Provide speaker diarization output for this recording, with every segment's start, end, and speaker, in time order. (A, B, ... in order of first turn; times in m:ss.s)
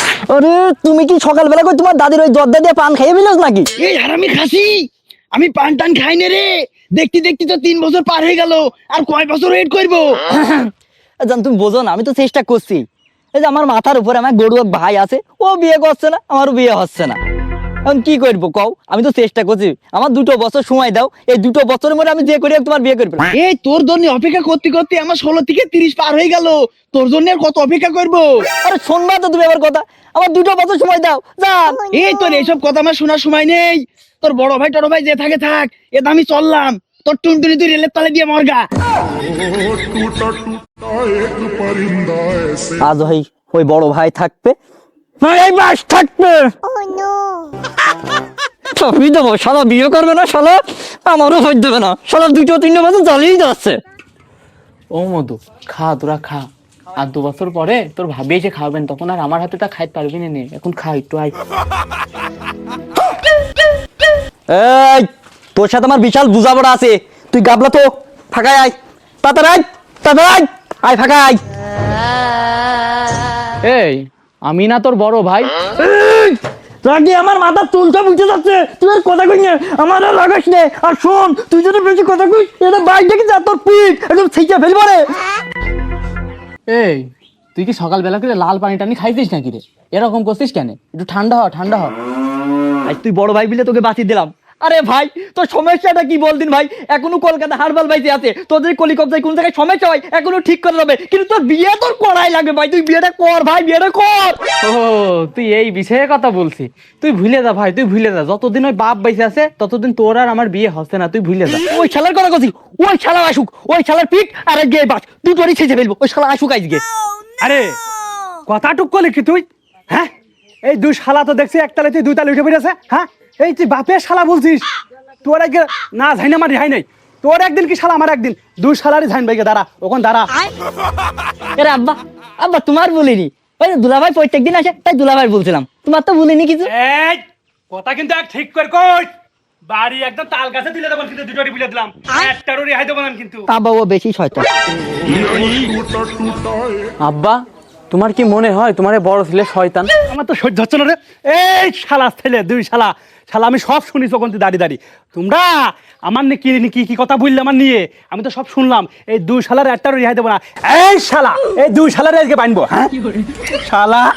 0:00.2-0:03.7 A
0:03.8-0:10.1 B
0:10.3-0:10.7 A
0:11.2-0:12.8 A
0:13.4-0:17.2 A
0:17.8-0:23.3 A
0:23.3-0:28.3 B
0:28.6-0:32.0 A
0:31.9-0:38.6 B
0:42.8-0:44.6 A
0:45.2-0:46.5 A
0:48.7-0:53.8 A
0:55.0-0:56.5 C
0:57.0-1:01.3 C
1:04.5-1:11.4 A
1:13.7-1:15.5 C
1:15.8-1:25.1 A
1:26.7-1:31.9 C
1:32.9-1:44.4 A
1:44.6-1:51.6 C
1:51.7-1:56.8 A
1:57.4-1:57.8 D
1:58.5-2:00.1 D
2:00.7-2:04.7 D
2:05.2-2:10.3 D
2:11.6-2:16.7 A
2:16.7-2:19.1 D
2:19.7-2:23.5 D
2:23.5-2:24.5 A
2:27.0-2:27.4 C
2:27.9-2:29.9 C
2:30.1-2:42.9 D
2:43.6-2:44.1 D